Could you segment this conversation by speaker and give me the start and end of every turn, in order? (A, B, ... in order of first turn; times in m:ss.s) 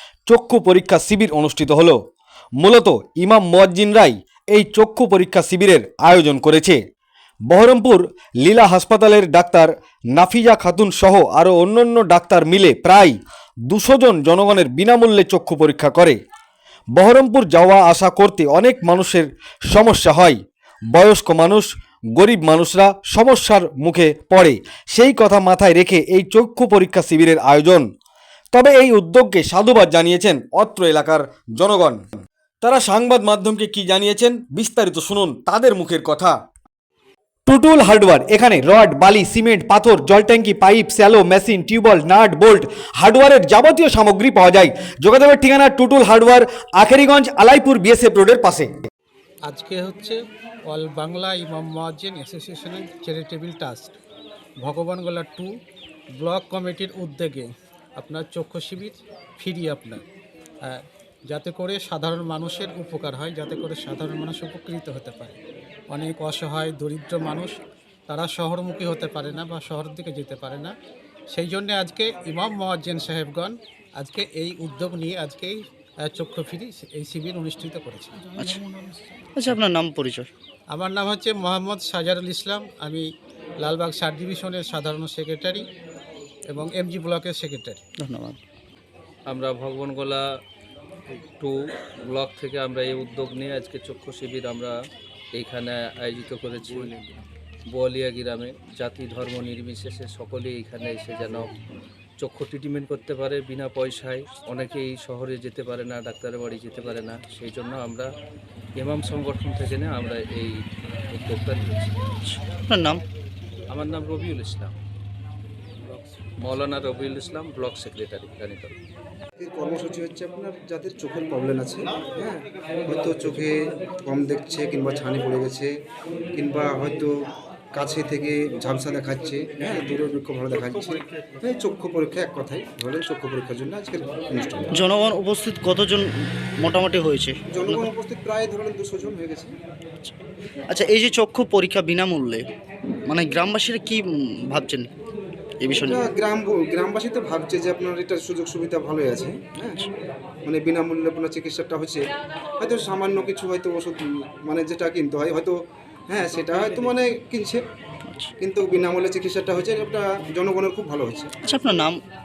0:00.3-0:02.0 A
0:02.6-0:06.8 A
0:07.5-0:16.2 A
0:16.9-0:20.4 A
0:20.9-0:27.9 A
0:28.5-0:32.0 A
0:32.6-0:36.4 A
0:37.4-0:48.7 A
0:49.5-0:50.2 B
0:50.7-0:53.9 B
0:54.6-0:55.5 B
0:56.2-1:00.0 B
1:00.6-1:05.4 B
1:05.9-1:10.7 B
1:11.3-1:15.6 B
1:16.1-1:18.2 B
1:18.2-1:20.3 C
1:20.7-1:23.0 B
1:23.6-1:25.6 B
1:26.5-1:27.8 B
1:28.0-1:28.4 C
1:29.3-1:30.2 D
1:32.1-1:34.7 D
1:35.3-1:36.9 D
1:37.7-1:41.5 D
1:42.2-1:48.1 D
1:48.8-1:50.6 D
1:51.1-1:52.0 D
1:52.2-1:53.0 C
1:53.7-1:54.7 D
1:56.4-1:58.7 D
1:59.4-2:05.7 E
2:06.4-2:07.1 E
2:07.7-2:14.7 E
2:14.7-2:17.9 C
2:17.5-2:19.5 E
2:20.7-2:22.5 C
2:23.1-2:24.9 C
2:25.6-2:26.0 C
2:25.8-2:29.8 E
2:30.4-2:32.1 E
2:32.6-2:35.6 E
2:36.1-2:37.6 E
2:38.0-2:38.3 C
2:38.4-2:41.3 E
2:41.4-2:42.0 C